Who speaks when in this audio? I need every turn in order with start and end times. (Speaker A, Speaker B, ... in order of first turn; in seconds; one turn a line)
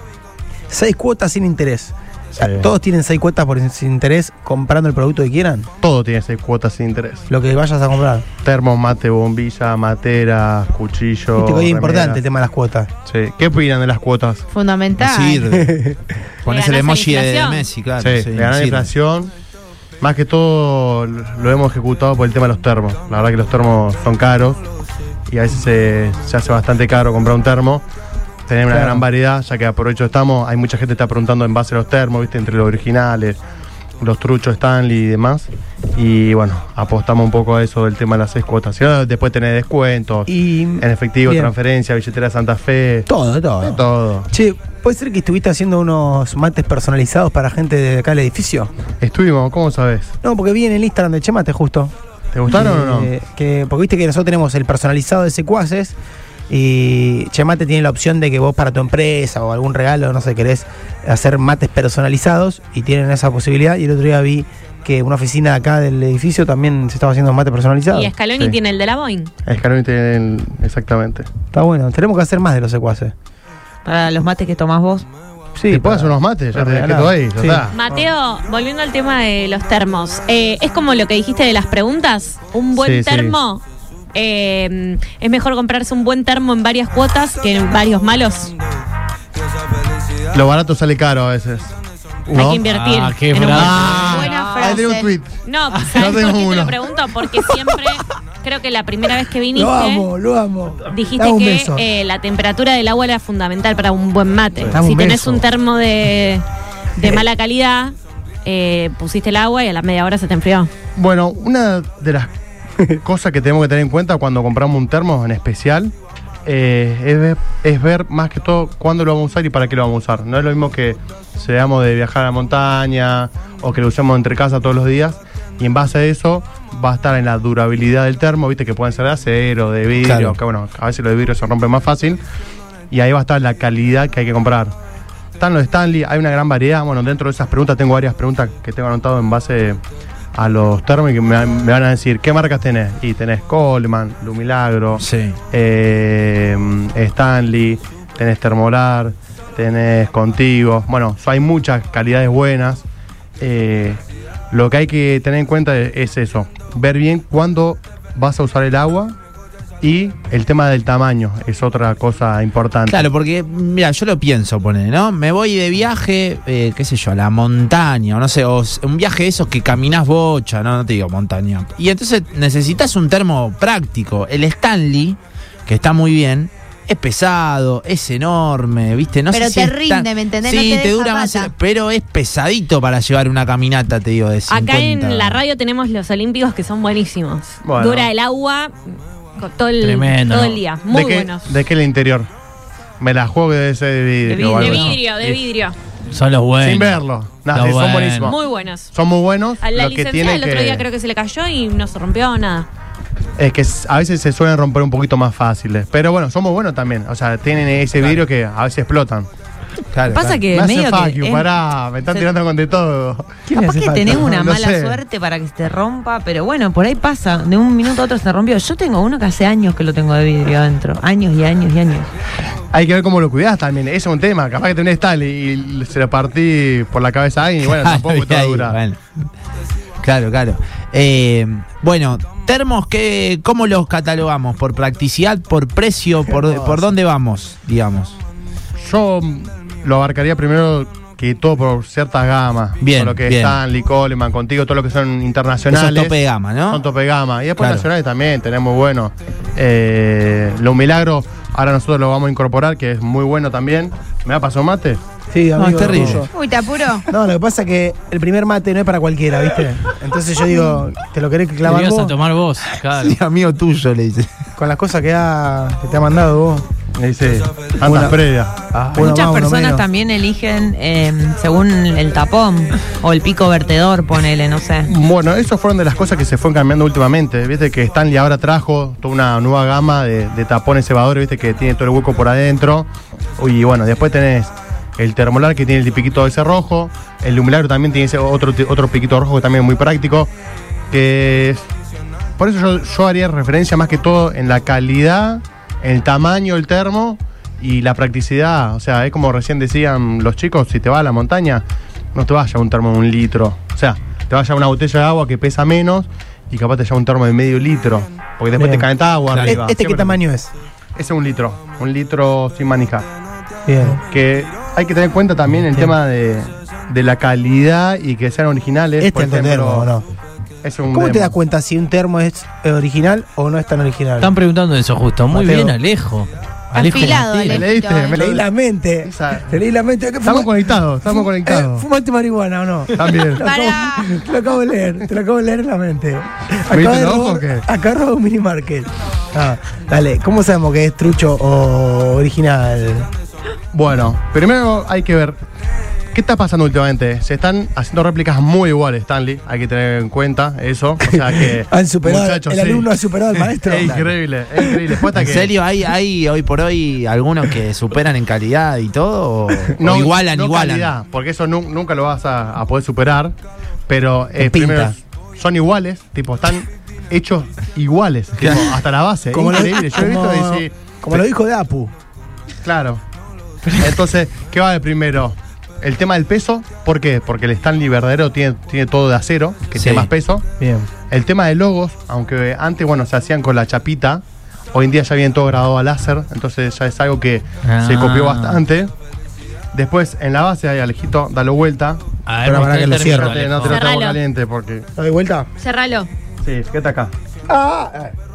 Speaker A: 0.7-5.7
Speaker B: 5.8-7.2
Speaker A: 7.3-8.3
Speaker B: 8.4-12.2
Speaker A: 11.4-12.9
Speaker B: 13.1-14.4
Speaker C: 14.5-15.4
Speaker D: 15.0-15.8
Speaker A: 15.6-16.0
Speaker D: 16.4-18.9
Speaker E: 16.5-17.6
Speaker B: 18.0-19.3
Speaker B: 20.0-24.6
Speaker B: 25.3-27.8
Speaker B: 28.5-33.4
Speaker A: 28.7-29.0
Speaker B: 34.0-43.1
Speaker A: 40.3-41.5
Speaker A: 43.1-48.7
Speaker B: 43.6-44.3
Speaker B: 49.0-50.1
Speaker A: 50.2-51.9
Speaker B: 52.3-53.1
Speaker A: 52.5-56.0
Speaker A: 56.5-68.1
Speaker E: 67.9-69.3
Speaker B: 69.5-71.2
Speaker A: 71.5-73.1
Speaker F: 73.8-75.0
Speaker A: 75.6-77.6
Speaker B: 75.7-77.8
Speaker E: 77.7-83.6
Speaker B: 82.7-83.3
Speaker E: 84.1-88.5
Speaker B: 90.3-91.7
Speaker B: 92.3-92.6
Speaker E: 92.3-94.3
Speaker G: 92.4-94.8
Speaker B: 93.5-95.3
Speaker C: 93.9-95.1
Speaker E: 95.4-100.0
Speaker G: 95.8-96.1
Speaker B: 95.9-96.8
Speaker A: 99.5-101.8
Speaker E: 100.9-106.4
Speaker A: 104.7-105.4
Speaker E: 107.0-110.7
Speaker B: 111.0-112.3
Speaker B: 113.0-115.9
Speaker B: 116.4-132.2
Speaker D: 130.0-130.4
Speaker B: 132.9-134.7
Speaker B: 135.4-139.8
Speaker B: 140.3-152.8
Speaker D: 145.0-145.4
Speaker B: 153.4-154.0
Speaker B: 154.5-159.2
Speaker B: 159.8-163.1
Speaker D: 162.9-185.4
Speaker C: 179.3-181.5
Speaker E: 184.5-188.7
Speaker B: 187.6-188.1
Speaker E: 189.4-191.5
Speaker G: 189.8-190.6
Speaker B: 190.9-192.3
Speaker B: 193.0-195.0
Speaker E: 194.3-195.7
Speaker F: 194.3-194.8
Speaker G: 194.6-195.4
Speaker G: 196.1-198.3
Speaker B: 196.6-198.3
Speaker E: 198.2-198.9
Speaker B: 198.9-200.8
Speaker E: 199.6-202.7
Speaker B: 203.4-209.3
Speaker D: 209.9-210.4
Speaker F: 210.1-211.5
Speaker B: 210.4-213.4
Speaker A: 213.5-214.3
Speaker F: 213.5-222.1
Speaker B: 214.0-215.0
Speaker B: 222.7-228.8
Speaker D: 227.6-229.0
Speaker D: 230.0-238.2
Speaker A: 236.4-236.8
Speaker B: 238.8-246.2
Speaker D: 242.8-243.6
Speaker D: 245.7-246.8
Speaker B: 246.7-255.0
Speaker D: 247.6-247.8
Speaker A: 255.3-256.3
Speaker D: 255.6-256.2
Speaker C: 256.3-257.1
Speaker A: 257.1-262.1
Speaker G: 261.6-263.1
Speaker D: 262.8-264.3
Speaker A: 264.6-266.7
Speaker B: 267.0-268.6
Speaker A: 267.8-268.2
Speaker A: 268.9-269.8
Speaker F: 268.9-274.9
Speaker B: 274.8-290.3
Speaker B: 290.9-291.7
Speaker B: 292.4-310.2
Speaker A: 308.6-310.5
Speaker D: 309.3-309.6
Speaker B: 310.9-313.1
Speaker A: 313.7-314.0
Speaker B: 314.0-319.9
Speaker A: 319.0-320.0
Speaker B: 320.6-321.3
Speaker A: 320.9-324.3
Speaker G: 324.2-327.7
Speaker A: 325.3-325.8
Speaker C: 326.7-328.4
Speaker B: 327.5-328.4
Speaker A: 328.1-343.1
Speaker B: 329.0-329.5
Speaker B: 330.2-331.9
Speaker B: 332.9-333.4
Speaker C: 333.4-334.2
Speaker B: 336.7-337.6
Speaker B: 343.7-345.4
Speaker B: 346.1-352.9
Speaker A: 351.0-354.9
Speaker B: 353.6-355.5
Speaker D: 355.1-360.9
Speaker B: 359.8-363.3
Speaker B: 363.9-371.2
Speaker A: 364.4-364.9
Speaker D: 368.4-368.7
Speaker A: 369.3-371.9
Speaker B: 372.6-373.0
Speaker B: 373.7-380.4
Speaker D: 379.8-380.1
Speaker A: 380.6-380.9
Speaker B: 381.1-384.2
Speaker B: 384.7-388.9
Speaker G: 387.6-388.6
Speaker B: 389.7-392.0
Speaker G: 392.3-393.8
Speaker A: 392.4-393.4
Speaker B: 393.0-394.9
Speaker E: 393.6-394.2
Speaker A: 395.0-395.5
Speaker E: 395.6-396.1
Speaker B: 396.4-397.1
Speaker A: 397.5-398.1